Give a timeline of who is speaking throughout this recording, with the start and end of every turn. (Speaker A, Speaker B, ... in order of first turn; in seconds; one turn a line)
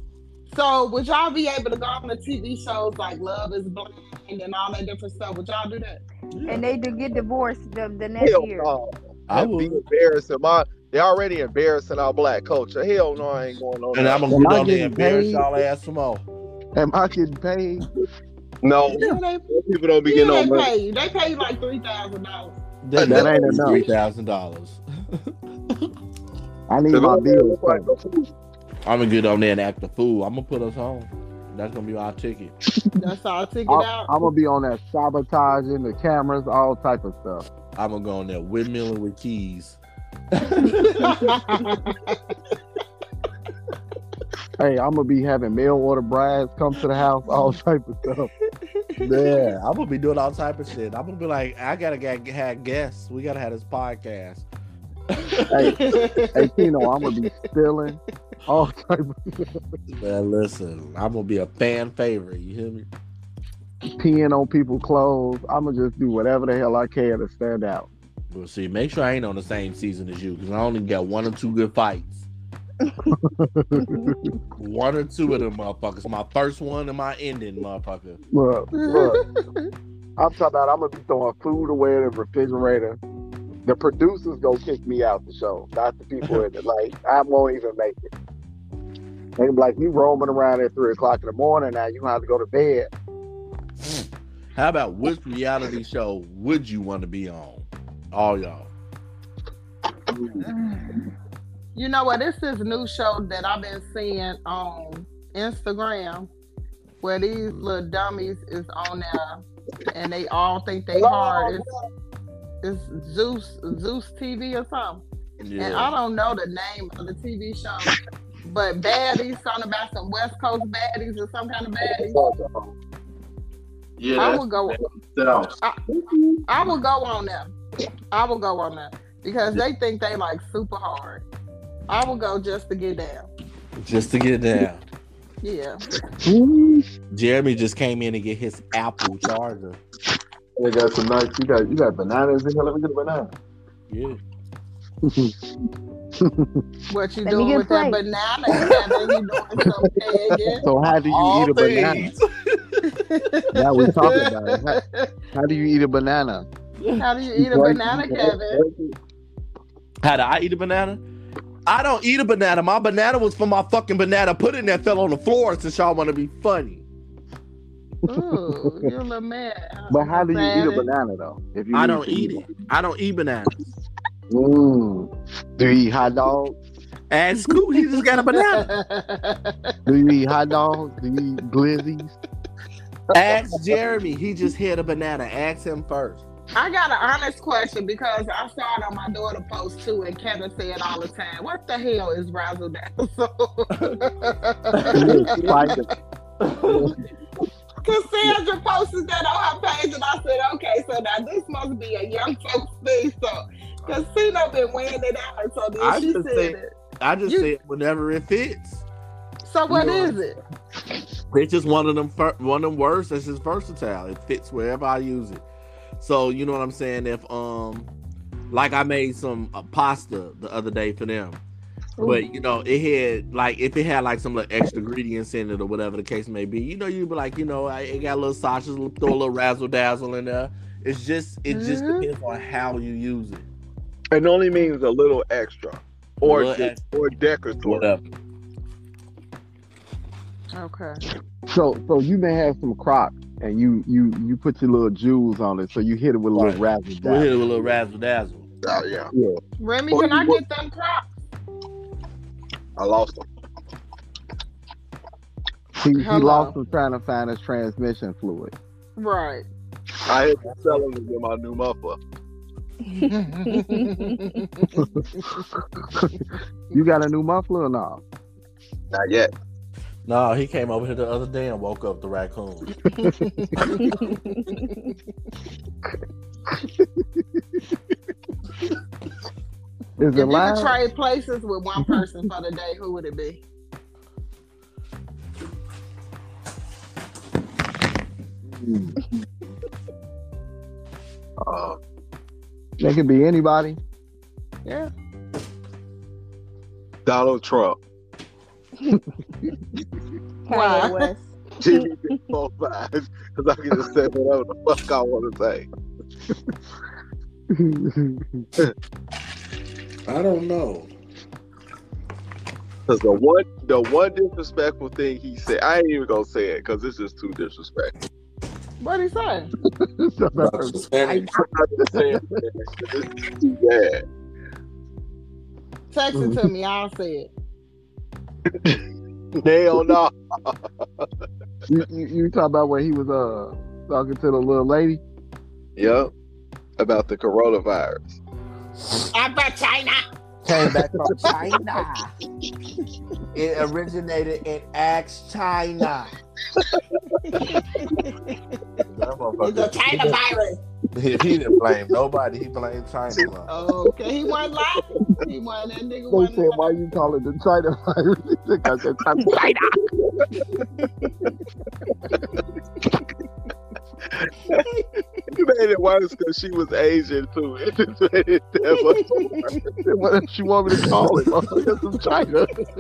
Speaker A: 0.5-6.0
Speaker B: 6.3-6.7
Speaker C: 6.5-8.7
Speaker D: 8.2-14.3
Speaker B: 9.3-9.8
Speaker B: 13.9-16.2
Speaker E: 14.3-15.5
Speaker E: 16.8-17.9
Speaker D: 18.6-20.7
Speaker A: 18.9-19.5
Speaker A: 20.1-22.6
Speaker B: 22.8-25.9
Speaker D: 23.0-23.9
Speaker E: 23.0-23.8
Speaker E: 26.7-27.9
Speaker D: 26.9-28.3
Speaker B: 28.9-32.5
Speaker A: 33.0-34.1
Speaker E: 33.7-37.5
Speaker B: 37.8-39.8
Speaker B: 40.3-41.3
Speaker A: 40.9-42.2
Speaker E: 44.6-48.3
Speaker A: 48.6-49.5
Speaker B: 49.0-54.5
Speaker B: 55.1-55.8
Speaker E: 55.5-59.6
Speaker A: 55.6-57.2
Speaker B: 60.0-62.9
Speaker E: 64.0-67.9
Speaker B: 68.3-72.3
Speaker E: 73.1-74.3
Speaker B: 74.6-78.2
Speaker E: 78.3-79.2
Speaker A: 78.7-79.6
Speaker E: 80.2-83.0
Speaker E: 83.7-88.1
Speaker E: 89.4-92.9
Speaker B: 93.8-98.7
Speaker D: 100.1-100.4
Speaker C: 100.5-100.8
Speaker A: 101.8-106.3
Speaker A: 107.0-111.6
Speaker D: 110.9-111.7
Speaker A: 112.6-115.0
Speaker B: 115.4-115.9
Speaker A: 115.6-122.2
Speaker D: 121.9-122.8
Speaker B: 124.0-124.4
Speaker D: 124.0-124.4
Speaker A: 124.2-124.8
Speaker D: 125.2-126.4
Speaker A: 126.5-127.5
Speaker A: 128.1-131.2
Speaker A: 131.9-133.3
Speaker B: 133.8-134.8
Speaker A: 135.4-135.8
Speaker E: 136.2-136.8
Speaker B: 137.1-139.8
Speaker D: 140.6-143.3
Speaker B: 143.9-144.2
Speaker E: 145.0-145.3
Speaker E: 146.2-146.6
Speaker A: 146.9-150.6
Speaker C: 147.3-148.0
Speaker E: 150.6-152.1
Speaker B: 150.9-152.9
Speaker A: 152.9-155.1
Speaker E: 153.5-154.8
Speaker E: 155.3-156.5
Speaker A: 157.0-158.6
Speaker E: 157.4-158.1
Speaker D: 157.9-158.9
Speaker B: 160.0-161.0
Speaker B: 161.7-166.8
Speaker A: 168.1-170.9
Speaker E: 168.1-168.7
Speaker E: 169.9-172.5
Speaker B: 171.7-173.5
Speaker E: 174.3-176.6
Speaker B: 177.1-178.7
Speaker A: 178.3-179.8
Speaker E: 179.9-182.2
Speaker B: 183.1-186.2
Speaker A: 186.6-195.6
Speaker B: 194.7-195.4
Speaker E: 194.9-195.8
Speaker D: 194.9-195.9
Speaker B: 196.4-196.9
Speaker A: 197.8-206.7
Speaker B: 205.8-208.8
Speaker A: 207.3-207.5
Speaker A: 209.4-210.4
Speaker B: 209.7-210.2
Speaker B: 211.3-215.4
Speaker B: 216.0-217.9
Speaker B: 218.5-221.4
Speaker B: 222.0-233.4
Speaker A: 231.5-232.1
Speaker D: 234.1-237.9
Speaker B: 236.2-236.8
Speaker B: 237.6-238.0
Speaker A: 240.5-241.0
Speaker E: 241.5-247.8
Speaker B: 246.3-248.5
Speaker D: 248.6-249.1
Speaker E: 249.1-249.4
Speaker A: 249.6-251.1
Speaker D: 249.9-250.4
Speaker D: 252.8-253.2
Speaker E: 255.8-258.5
Speaker A: 256.0-256.5
Speaker A: 259.0-259.5
Speaker D: 260.1-262.0
Speaker A: 262.9-264.8
Speaker C: 263.6-263.9
Speaker E: 264.8-265.0
Speaker E: 266.7-268.0
Speaker D: 268.9-269.3
Speaker B: 270.1-272.8
Speaker A: 273.0-274.0
Speaker C: 273.9-274.6
Speaker E: 276.5-277.6
Speaker E: 280.0-280.8
Speaker A: 280.1-283.4
Speaker E: 288.5-288.9
Speaker D: 291.4-291.8
Speaker E: 292.8-293.8
Speaker A: 294.6-294.9
Speaker D: 297.1-297.8
Speaker E: 298.9-299.5
Speaker C: 300.5-301.9
Speaker A: 300.5-301.2
Speaker D: 301.6-305.7
Speaker E: 307.5-308.5
Speaker B: 310.1-310.9
Speaker D: 312.9-317.9
Speaker A: 318.8-319.5
Speaker E: 319.9-320.8
Speaker B: 320.4-321.3
Speaker D: 321.0-324.0
Speaker E: 321.8-322.2
Speaker A: 325.9-327.3
Speaker E: 326.1-326.4
Speaker D: 329.4-330.6
Speaker E: 331.7-335.0
Speaker D: 335.8-336.1
Speaker D: 336.8-338.2
Speaker A: 339.1-340.0
Speaker B: 340.4-342.1
Speaker B: 343.3-346.1
Speaker A: 347.3-348.6
Speaker B: 348.8-350.2
Speaker A: 349.4-350.6
Speaker B: 350.9-353.5
Speaker A: 353.5-356.7
Speaker E: 356.1-359.4
Speaker A: 360.6-361.1
Speaker D: 364.1-364.6
Speaker A: 364.6-365.2
Speaker D: 365.3-369.6
Speaker A: 368.9-369.6
Speaker E: 369.8-372.5
Speaker D: 370.9-371.4